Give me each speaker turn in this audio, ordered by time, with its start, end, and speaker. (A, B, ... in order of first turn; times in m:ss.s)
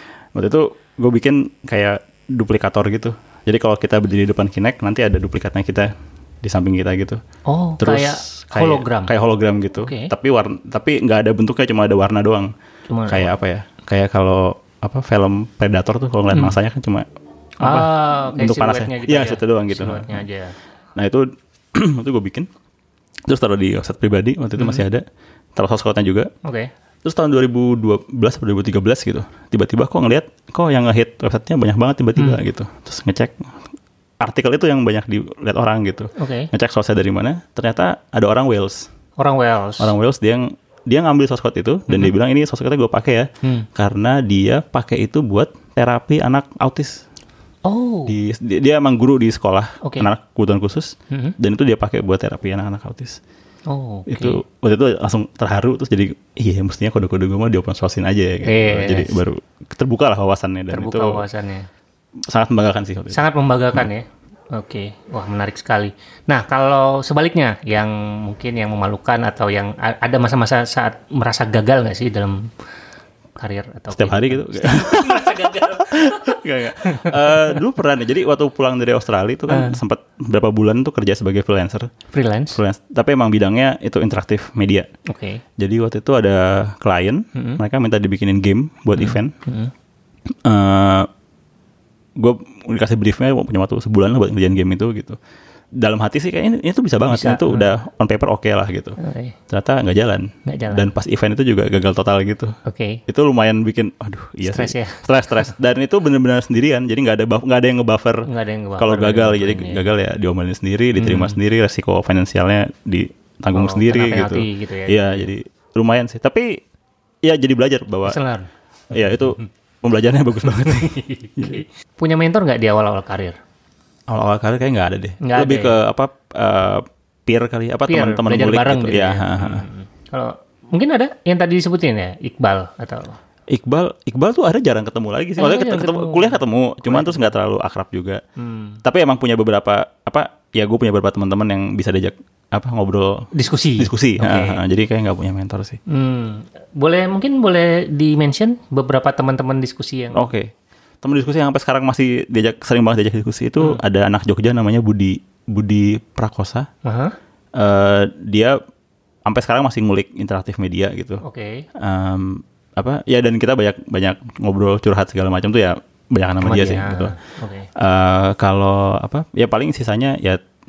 0:00.4-0:05.9 A
0:06.4-0:07.2 A
0:07.5-0:09.1 B
0:07.8-0:12.5 A
0:09.8-0:10.1 B
0:12.9-0:13.3 B
0:13.1-0:17.1 A
0:17.6-0:20.2 A
0:17.6-0:20.6 B
0:21.0-0:22.5 A
0:23.3-0:25.0 A
0:24.6-0:24.8 B
0:25.6-0:26.3 A
0:26.4-0:26.7 B
0:27.0-0:33.5 A
0:34.2-0:38.9 A
0:36.2-0:36.5 B
0:39.2-0:39.9 B
0:39.8-0:47.0 A
0:47.6-0:48.1 B
0:48.1-0:53.2 A
0:49.8-0:50.1 B
0:51.1-0:51.4 B
0:53.7-0:54.4 B
0:54.1-1:01.2 A
0:58.4-0:59.2 B
1:00.7-1:01.7 B
1:02.3-1:03.2 A
1:03.1-1:12.5 B
1:13.4-1:17.6 B
1:13.9-1:21.9 A
1:19.5-1:19.8 B
1:22.1-1:22.6 B
1:22.5-1:24.9 A
1:25.0-1:25.4 B
1:25.6-1:29.3 A
1:27.4-1:27.6 B
1:29.0-1:29.7 B
1:30.3-1:31.1 A
1:32.2-1:35.2 A
1:35.8-1:39.0 A
1:37.1-1:37.7 B
1:39.0-1:39.4 B
1:39.5-1:48.3 A
1:40.5-1:40.9 B
1:42.6-1:43.0 B
1:44.4-1:45.5 B
1:48.3-1:49.9 B
1:48.8-1:56.6 A
1:51.0-1:51.4 B
1:53.5-1:55.3 B
1:57.2-1:58.2 A
1:58.1-1:58.5 B
1:58.9-2:01.6 A
2:00.6-2:03.4 B
2:04.1-2:09.6 A
2:05.2-2:05.8 B
2:07.9-2:13.2 B
2:13.5-2:18.2 A
2:15.4-2:17.3 B
2:18.4-2:18.8 B
2:18.8-2:25.8 A
2:23.3-2:24.6 B
2:25.9-2:30.2 B
2:30.1-2:36.7 A
2:36.8-2:37.2 B
2:37.6-2:38.6 A
2:39.3-2:41.2 A
2:41.2-2:41.7 B
2:41.8-2:47.2 A
2:46.4-2:47.7 B
2:47.8-2:50.4 A